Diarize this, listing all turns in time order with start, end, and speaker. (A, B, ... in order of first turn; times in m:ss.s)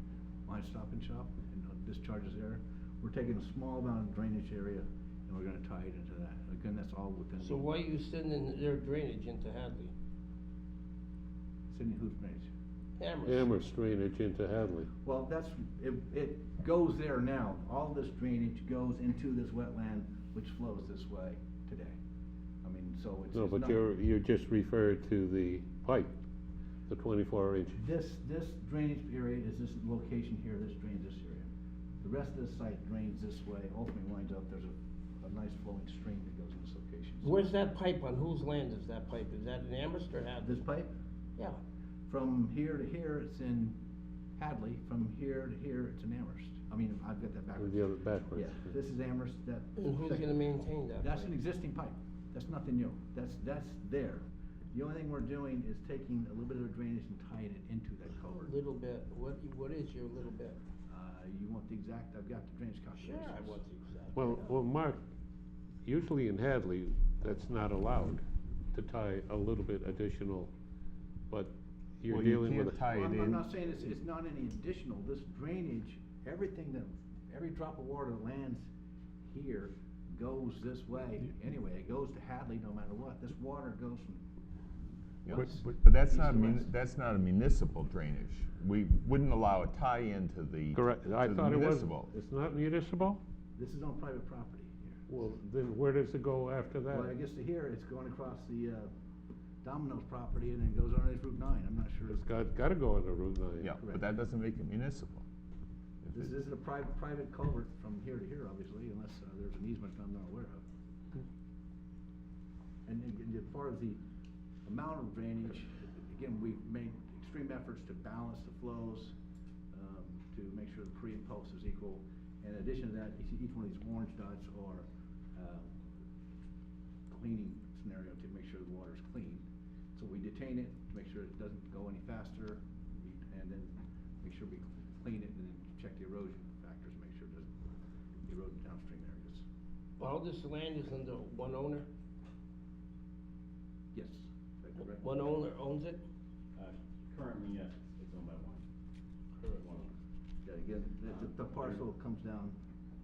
0:00.5-0:07.7 A
0:07.4-0:09.9 B
0:11.7-0:12.5 A
0:13.0-0:13.5 B
0:13.2-0:14.9 C
0:15.0-0:22.0 A
0:22.6-0:23.8 A
0:23.3-0:26.1 C
0:26.9-0:27.8 C
0:27.8-0:31.5 A
0:32.0-0:37.4 A
0:37.2-0:40.6 B
0:40.4-0:40.9 A
0:42.1-0:43.8 A
0:44.4-0:50.4 A
0:47.6-0:48.6 C
0:49.8-0:51.3 B
0:51.0-0:58.5 A
0:58.3-1:00.6 B
1:00.9-1:03.6 A
1:03.0-1:04.5 B
1:04.2-1:05.0 C
1:05.8-1:08.2 C
1:08.7-1:10.5 C
1:11.3-1:12.8 C
1:12.1-1:13.5 D
1:12.8-1:18.7 A
1:19.2-1:24.2 A
1:25.2-1:32.1 D
1:26.1-1:26.7 A
1:30.7-1:33.2 C
1:33.6-1:35.1 A
1:35.1-1:37.1 C
1:36.9-1:38.9 A
1:39.6-1:42.2 A
1:42.1-1:43.7 C
1:43.6-1:45.2 D
1:43.8-1:44.0 A
1:46.1-1:50.6 A
1:52.8-1:54.0 A
1:54.6-1:59.1 A
1:59.7-2:05.8 A
2:07.1-2:17.5 A
2:18.2-2:19.4 A
2:20.0-2:21.9 B
2:23.9-2:25.1 A
2:24.9-2:26.0 B
2:26.6-2:28.6 E
2:29.4-2:29.6 B
2:29.6-2:29.9 E
2:30.4-2:32.6 A